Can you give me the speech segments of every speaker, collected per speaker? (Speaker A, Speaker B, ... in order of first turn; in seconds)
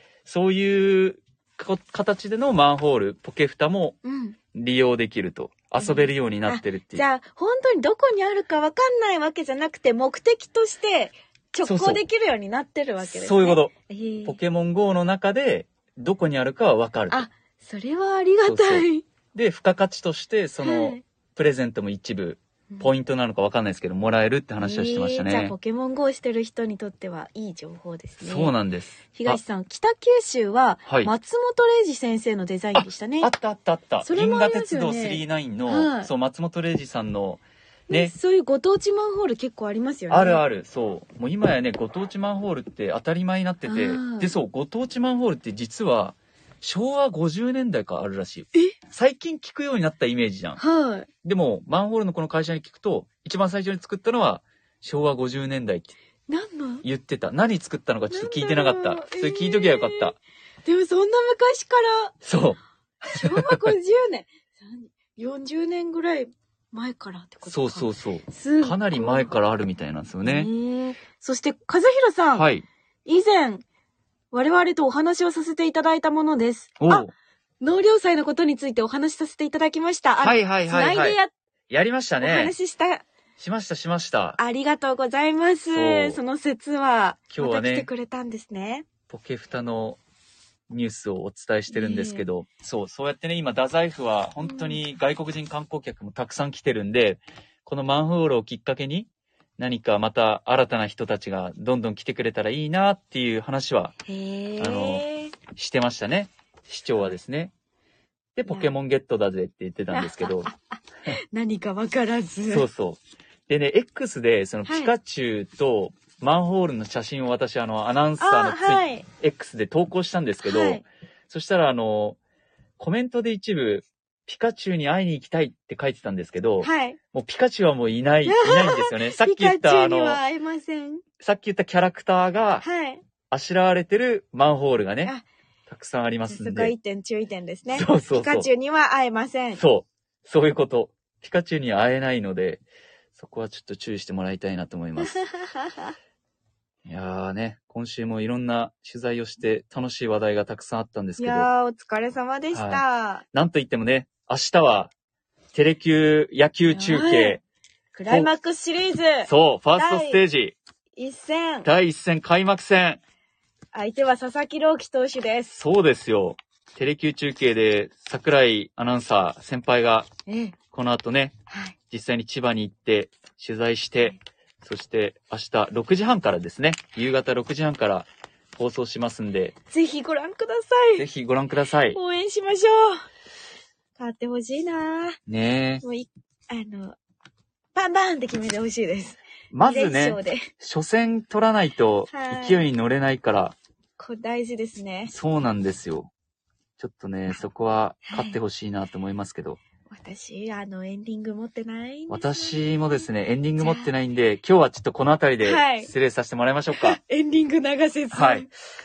Speaker A: 0.2-4.0, 4.5-7.0, 11.6-12.0, 13.0-13.7, 14.2-17.2, 18.4-25.6, 28.2-29.4, 30.9-31.1, 33.2-38.1, 40.1-50.6, 51.2-55.9, 56.8-60.1, 62.2-63.6, 67.4-70.5, 72.3-72.7, 76.8-77.1, 80.2-81.2, 81.7-82.5, 83.4-84.4, 85.7-86.2, 87.3-87.9, 89.1-90.0, 90.7-104.0, 104.6-107.5, 108.3-110.5, 112.5-122.2, 122.8-130.2, 131.2-132.6, 133.3-135.1, 135.7-136.7, 137.7-138.5, 139.6-142.6, 143.1-145.2, 146.8-151.5, 152.5-154.9, 155.5-157.4, 159.2-160.6, 161.6-163.0, 165.5-170.1, 170.7-171.3, 171.9-179.5, 181.0-182.0, 185.3-185.8, 189.5-193.6, 195.1-196.1, 196.8-199.6, 202.1-207.0, 208.1-208.5
Speaker B: 4.0-4.3, 5.8-14.4, 17.1-19.0, 20.6-21.0, 24.6-28.5, 29.1-33.3, 34.0-36.1, 37.9-40.4, 43.6-44.3, 50.6-51.1, 56.3-56.8, 58.1-60.1, 60.6-62.1, 63.1-69.3, 70.2-72.5, 73.0-73.6, 74.3-81.3, 82.2-83.0, 84.4-88.9, 91.7-92.2, 94.4-94.8, 104.1-105.3, 108.5-108.8, 109.9-112.7, 114.7-114.9, 118.2-119.0, 120.4-120.8, 126.6-127.0, 128.2-131.0, 132.6-133.0, 136.3-139.6, 145.0-145.9, 151.2-153.2, 156.7-157.4, 157.9-160.2, 160.9-161.7, 163.7-165.6, 170.3-170.6, 179.7-181.1, 181.9-183.0, 184.0-185.2, 185.8-187.0, 187.7-190.5, 192.1-192.7, 194.0-195.1, 198.1-198.4, 199.9-203.1, 203.6-203.9, 205.4-205.9, 206.7-208.5